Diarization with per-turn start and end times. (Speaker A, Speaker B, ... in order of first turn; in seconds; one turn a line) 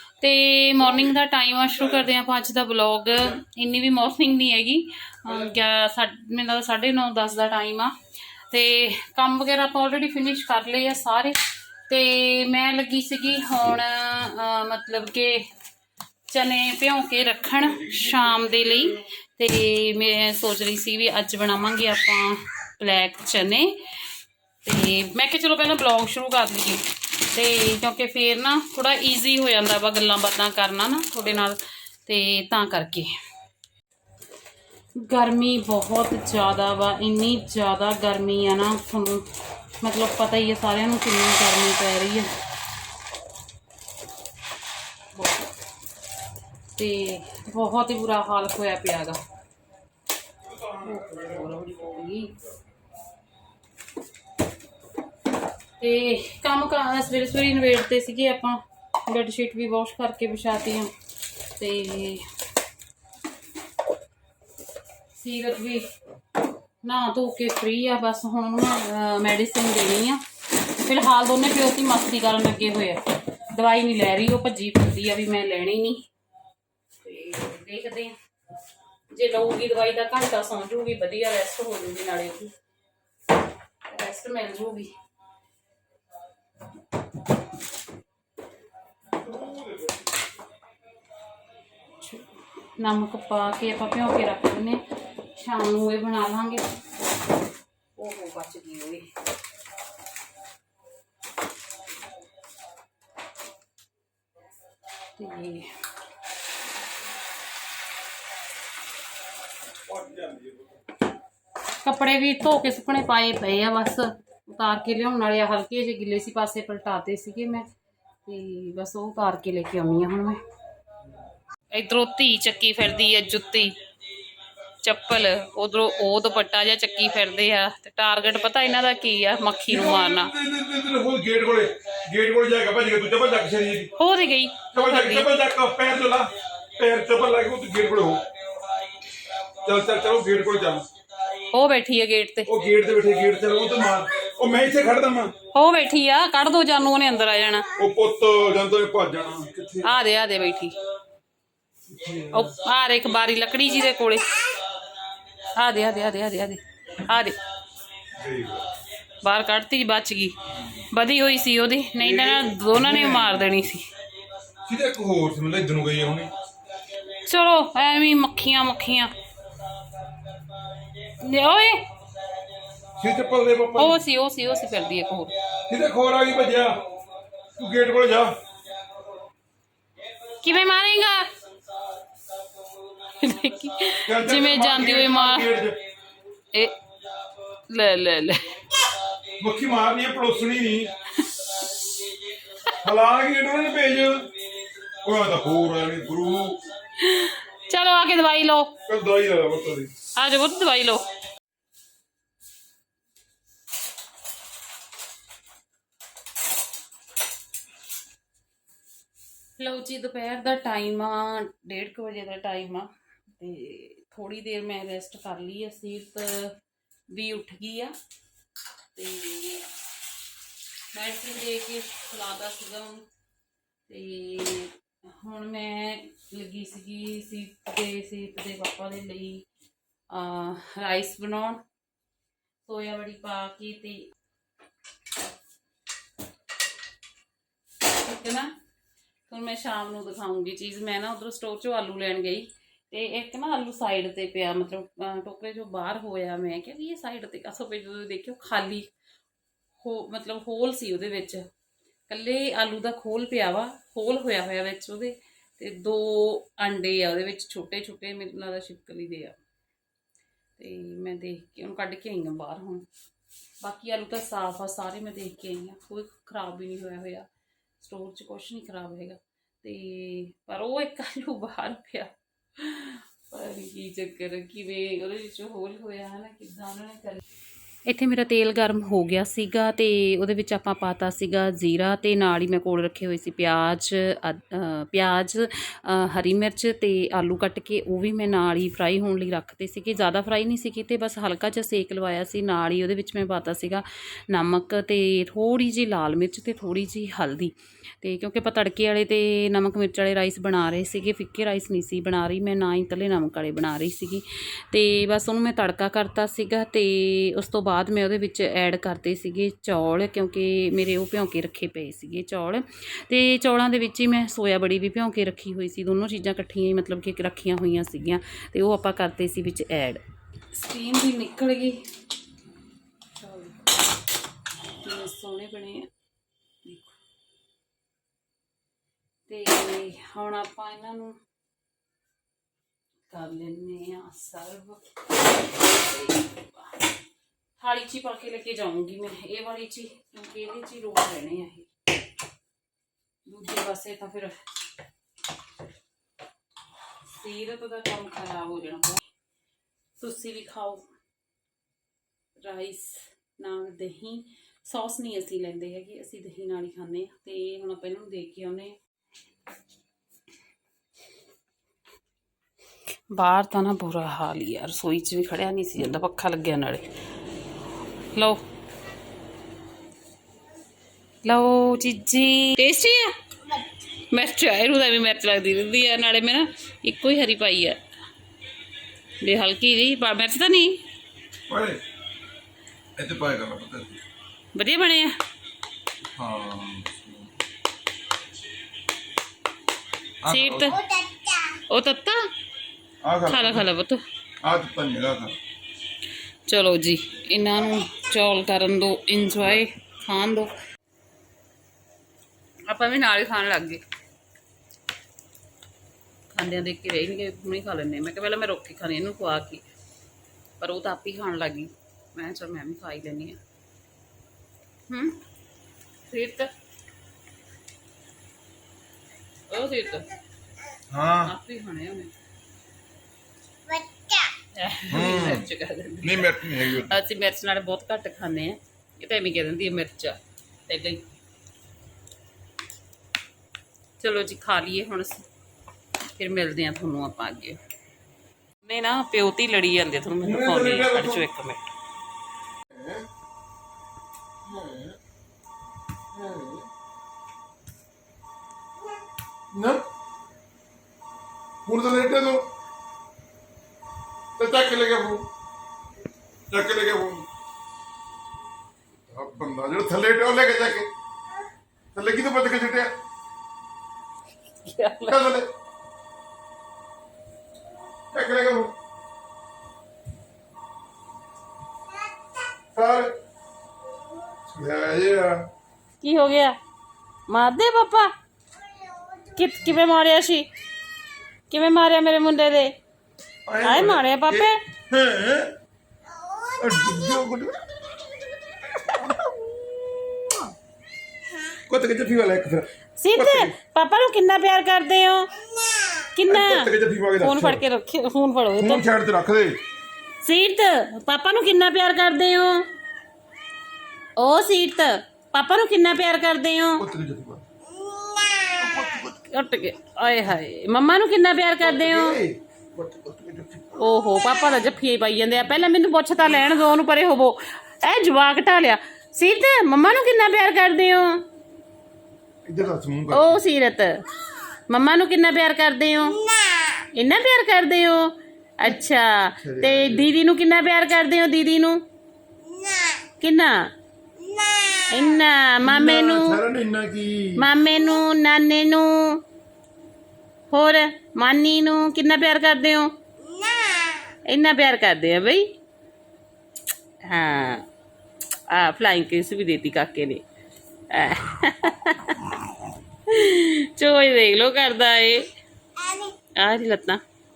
Speaker A: 0.2-7.9
Speaker B: 0.8-1.2
Speaker B: 5.3-5.5
Speaker A: 8.5-11.4
Speaker A: 11.9-15.4
Speaker A: 16.3-23.8
Speaker B: 17.8-18.4
Speaker A: 24.6-33.1
Speaker A: 35.0-39.3
Speaker A: 39.8-42.3
Speaker A: 45.2-45.4
Speaker A: 46.8-49.2
Speaker B: 50.5-52.0
Speaker A: 50.8-52.4
Speaker A: 55.8-60.9
Speaker A: 61.6-62.2
Speaker A: 65.2-65.8
Speaker A: 66.8-70.2
Speaker A: 70.8-76.0
Speaker A: 77.0-78.2
Speaker A: 79.1-82.5
Speaker A: 83.9-84.9
Speaker B: 89.1-90.0
Speaker A: 92.0-96.6
Speaker A: 98.0-99.1
Speaker A: 105.2-105.7
Speaker B: 109.9-110.6
Speaker A: 111.8-117.7
Speaker A: 118.3-120.4
Speaker A: 121.7-123.8
Speaker A: 124.8-130.3
Speaker B: 129.7-133.9
Speaker A: 134.0-135.3
Speaker B: 134.7-138.2
Speaker B: 139.7-140.9
Speaker A: 141.5-142.5
Speaker B: 142.5-145.3
Speaker A: 145.5-147.7
Speaker B: 147.8-149.9
Speaker A: 149.8-150.8
Speaker B: 151.9-152.5
Speaker A: 152.3-154.4
Speaker A: 155.6-157.4
Speaker B: 158.2-158.7
Speaker A: 159.2-160.3
Speaker A: 160.9-163.9
Speaker B: 162.0-163.4
Speaker B: 164.7-166.3
Speaker A: 167.2-169.1
Speaker A: 171.2-171.8
Speaker B: 173.0-174.0
Speaker A: 173.8-175.4
Speaker B: 175.7-176.8
Speaker B: 177.6-178.4
Speaker A: 180.4-181.3
Speaker A: 183.2-185.5
Speaker B: 184.1-185.8
Speaker A: 187.7-188.6
Speaker B: 189.4-190.9
Speaker B: 192.8-194.3
Speaker B: 195.0-196.6
Speaker A: 197.0-198.8
Speaker B: 198.9-199.9
Speaker A: 200.2-201.1
Speaker A: 209.6-216.6
Speaker A: 217.1-217.9
Speaker A: 218.9-219.7
Speaker A: 220.9-223.0
Speaker A: 223.9-229.4
Speaker A: 230.1-231.6
Speaker A: 232.7-234.1
Speaker A: 237.9-238.5
Speaker A: 239.3-248.9
Speaker A: 249.8-251.5
Speaker A: 252.1-259.4
Speaker A: 260.6-262.9
Speaker A: 263.6-267.3
Speaker A: 267.8-277.2
Speaker A: 277.9-320.0
Speaker A: 320.5-321.8
Speaker A: 323.2-323.7
Speaker A: 324.8-325.9
Speaker A: 326.6-327.0
Speaker A: 329.3-331.2
Speaker A: 333.1-334.8
Speaker A: 335.4-336.7
Speaker A: 337.6-341.7
Speaker A: 343.3-344.4
Speaker A: 347.1-349.0
Speaker A: 350.0-350.8
Speaker A: 352.4-358.8
Speaker A: 363.1-366.9
Speaker A: 368.1-368.4
Speaker A: 371.2-373.6
Speaker A: 374.1-377.8
Speaker A: 379.2-380.8
Speaker B: 381.5-381.8
Speaker B: 383.0-384.0
Speaker A: 384.5-385.1
Speaker B: 386.2-387.3
Speaker B: 390.2-390.8
Speaker A: 390.3-392.3
Speaker B: 393.0-393.7
Speaker A: 393.3-394.0
Speaker B: 394.4-395.4
Speaker A: 396.5-400.5
Speaker A: 402.7-403.8
Speaker A: 406.3-409.6
Speaker A: 410.6-413.4
Speaker A: 414.9-415.2
Speaker A: 416.1-416.5
Speaker A: 419.5-420.1
Speaker B: 420.9-421.3
Speaker A: 421.2-422.1
Speaker A: 424.5-431.1
Speaker B: 424.9-425.5
Speaker B: 426.0-426.9
Speaker A: 434.0-435.2
Speaker A: 436.2-437.6
Speaker A: 438.6-441.7
Speaker B: 440.2-441.2
Speaker B: 442.7-443.0
Speaker B: 444.5-445.0
Speaker B: 446.1-446.6
Speaker B: 449.5-449.8
Speaker B: 451.7-452.4
Speaker B: 454.4-455.2
Speaker B: 456.5-457.3
Speaker B: 459.1-460.9
Speaker B: 461.9-462.9
Speaker A: 464.6-465.3
Speaker B: 465.1-465.5
Speaker B: 468.1-468.7
Speaker B: 472.8-473.1
Speaker B: 474.5-475.5
Speaker A: 476.0-476.6
Speaker A: 477.3-478.1
Speaker A: 479.3-480.5
Speaker A: 481.5-482.7
Speaker B: 483.5-485.5
Speaker A: 483.6-484.6
Speaker B: 486.6-487.7
Speaker B: 488.8-489.1
Speaker B: 491.7-493.6
Speaker A: 493.0-495.3
Speaker A: 496.1-498.9
Speaker B: 496.3-497.6
Speaker B: 498.6-499.6
Speaker A: 500.2-502.7
Speaker A: 504.2-506.8
Speaker B: 506.8-507.4
Speaker B: 508.6-509.2
Speaker A: 509.1-512.2
Speaker B: 511.6-513.8
Speaker A: 513.8-521.2
Speaker B: 522.5-523.4
Speaker A: 523.1-523.9
Speaker A: 524.7-526.2
Speaker A: 527.0-528.1
Speaker A: 528.6-531.8
Speaker B: 529.4-530.1
Speaker A: 533.2-533.6
Speaker A: 534.9-536.4
Speaker B: 535.6-537.5
Speaker A: 537.4-539.2
Speaker A: 540.5-542.9
Speaker A: 544.3-545.5
Speaker A: 547.1-547.6
Speaker A: 548.5-550.2
Speaker A: 550.9-552.1
Speaker A: 553.1-555.3
Speaker A: 556.4-557.0